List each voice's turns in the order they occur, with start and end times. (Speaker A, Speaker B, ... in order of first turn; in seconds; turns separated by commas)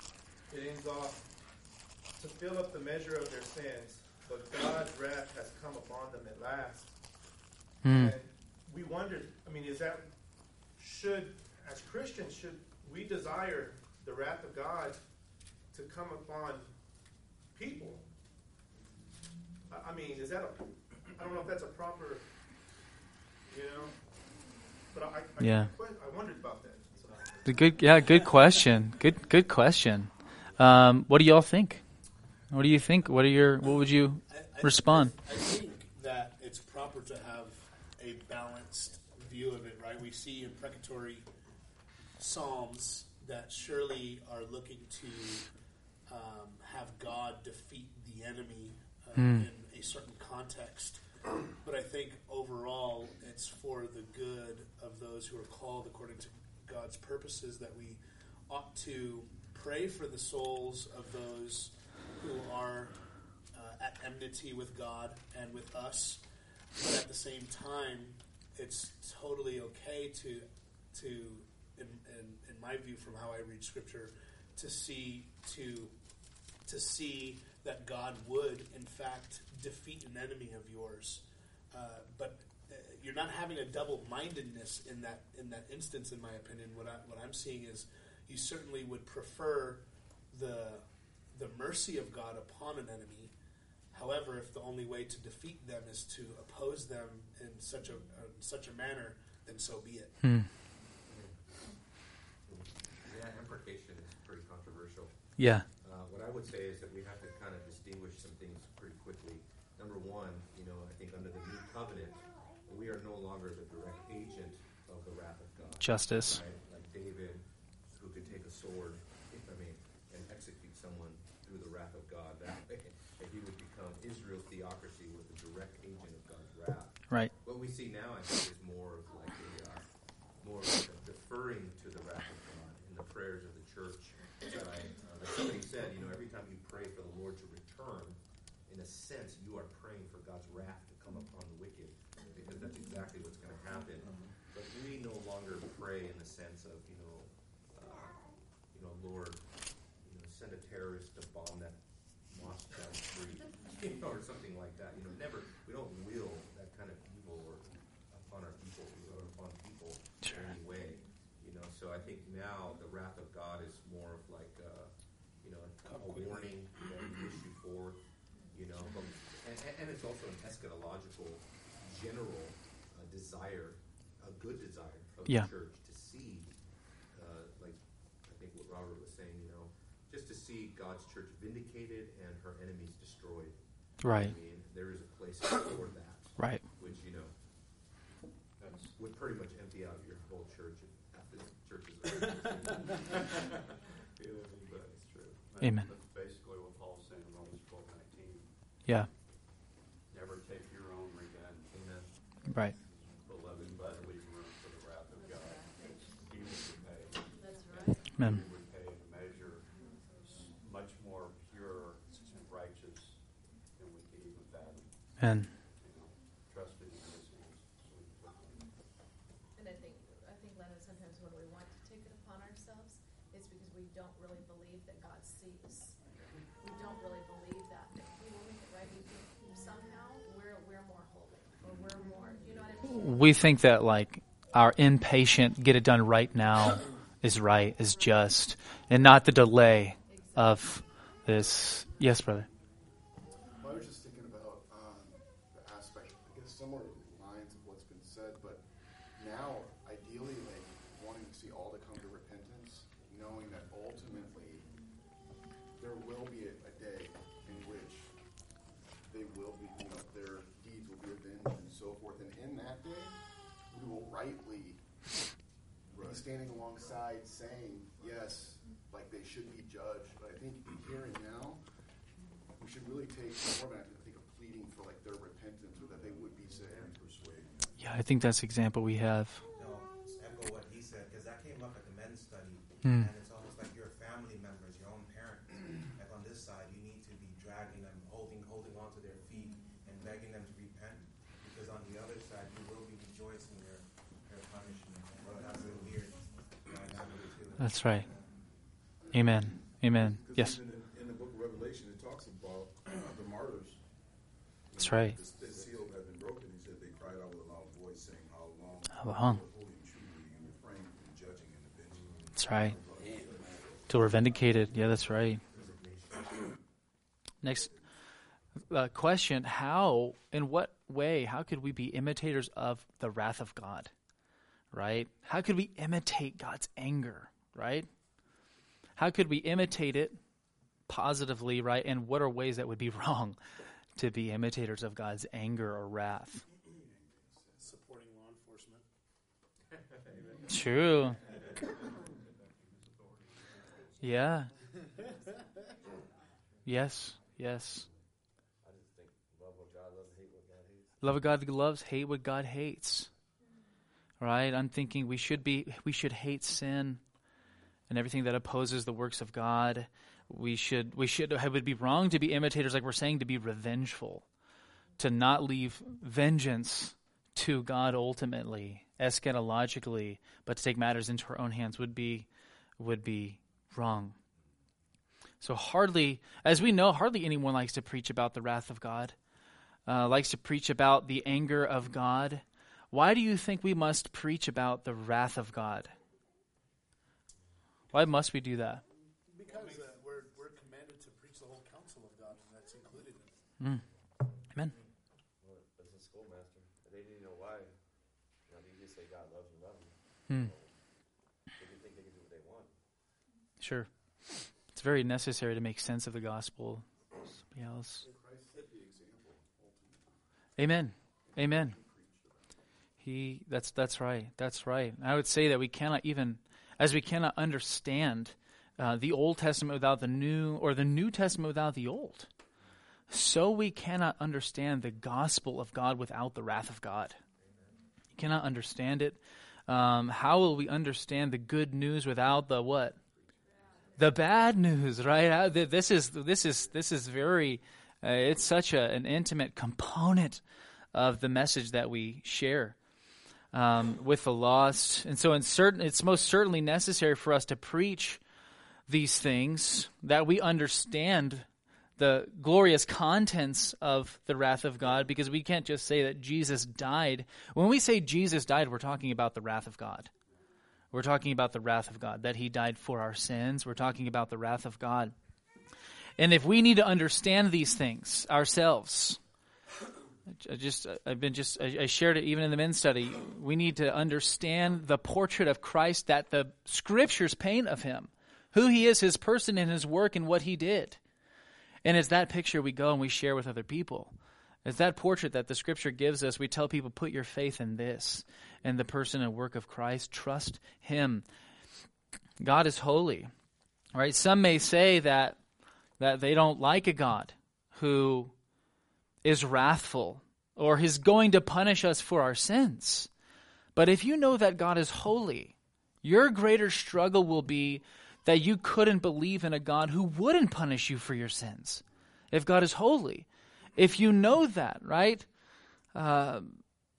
Speaker A: 0.5-1.3, Speaker A: 2.1-7.0, Speaker B: 7.8-8.2, Speaker A: 7.8-10.1, Speaker A: 10.8-15.0, Speaker A: 15.7-16.7, Speaker A: 17.5-18.1, Speaker A: 19.7-22.3, Speaker A: 23.5-24.0, Speaker A: 24.9-28.6, Speaker B: 25.4-25.7, Speaker B: 27.5-31.9, Speaker B: 32.5-35.2, Speaker C: 34.3-41.3, Speaker C: 42.2-45.5, Speaker C: 46.1-66.2, Speaker B: 49.2-49.5, Speaker C: 66.8-75.9, Speaker C: 76.7-93.3, Speaker C: 93.9-100.3, Speaker B: 100.2-100.5, Speaker D: 101.1-101.4, Speaker D: 102.4-187.8, Speaker B: 105.4-105.7, Speaker B: 115.8-116.4, Speaker B: 160.2-160.5, Speaker C: 165.8-166.6, Speaker B: 184.0-184.3, Speaker E: 188.6-188.9, Speaker D: 188.9-193.0, Speaker E: 193.1-193.4, Speaker E: 194.2-198.5, Speaker B: 195.6-195.9, Speaker E: 200.1-202.0, Speaker D: 201.7-202.1, Speaker B: 202.5-202.7, Speaker E: 203.2-218.8, Speaker F: 205.2-206.1, Speaker F: 207.4-208.1, Speaker B: 215.2-215.5, Speaker F: 219.6-226.0, Speaker F: 226.6-233.3, Speaker B: 232.9-242.5, Speaker F: 240.1-240.9, Speaker G: 243.6-248.6, Speaker G: 249.2-254.7, Speaker G: 255.8-258.1, Speaker G: 259.1-263.2, Speaker G: 263.7-264.8, Speaker G: 265.9-271.6, Speaker G: 272.6-277.0, Speaker H: 275.9-277.8, Speaker B: 277.8-279.4, Speaker I: 279.6-298.3, Speaker B: 282.8-283.1, Speaker B: 297.6-298.1, Speaker B: 299.1-300.6, Speaker H: 299.2-303.8, Speaker H: 304.7-313.9, Speaker B: 304.8-305.2, Speaker J: 305.3-305.7, Speaker B: 309.0-309.4, Speaker B: 312.4-312.8, Speaker J: 313.0-313.8, Speaker B: 313.9-315.4, Speaker B: 317.4-317.7, Speaker B: 318.7-323.9, Speaker B: 324.7-327.9, Speaker B: 329.0-330.2, Speaker B: 330.9-333.4, Speaker B: 334.0-336.4, Speaker H: 336.8-337.7, Speaker C: 337.6-338.9, Speaker B: 340.5-341.2, Speaker B: 344.0-344.5, Speaker B: 346.6-347.9, Speaker J: 348.6-351.0, Speaker B: 351.0-353.1, Speaker B: 354.2-357.0, Speaker B: 357.9-364.3, Speaker B: 365.0-372.3, Speaker B: 372.8-374.1, Speaker B: 375.4-379.1, Speaker B: 379.9-385.9, Speaker B: 387.9-388.8, Speaker C: 389.3-393.4, Speaker D: 394.6-394.9, Speaker J: 395.4-397.7, Speaker J: 398.5-400.8, Speaker J: 401.6-402.7, Speaker B: 403.6-406.9, Speaker B: 407.5-408.0, Speaker G: 408.0-410.2, Speaker B: 410.6-411.8, Speaker G: 411.3-412.5, Speaker B: 413.0-422.3, Speaker B: 423.1-427.2, Speaker D: 427.4-427.7, Speaker B: 428.2-433.0, Speaker F: 433.4-434.0, Speaker B: 434.0-440.4, Speaker B: 440.9-442.8, Speaker B: 443.5-448.2, Speaker B: 448.9-451.5, Speaker B: 452.0-460.1, Speaker B: 460.9-465.1, Speaker B: 466.2-469.2, Speaker B: 470.4-481.0, Speaker B: 481.8-484.1, Speaker B: 484.6-491.3, Speaker B: 492.4-493.3, Speaker B: 493.9-495.4, Speaker B: 496.0-498.3, Speaker B: 499.2-503.1, Speaker B: 503.8-515.3, Speaker B: 516.0-516.6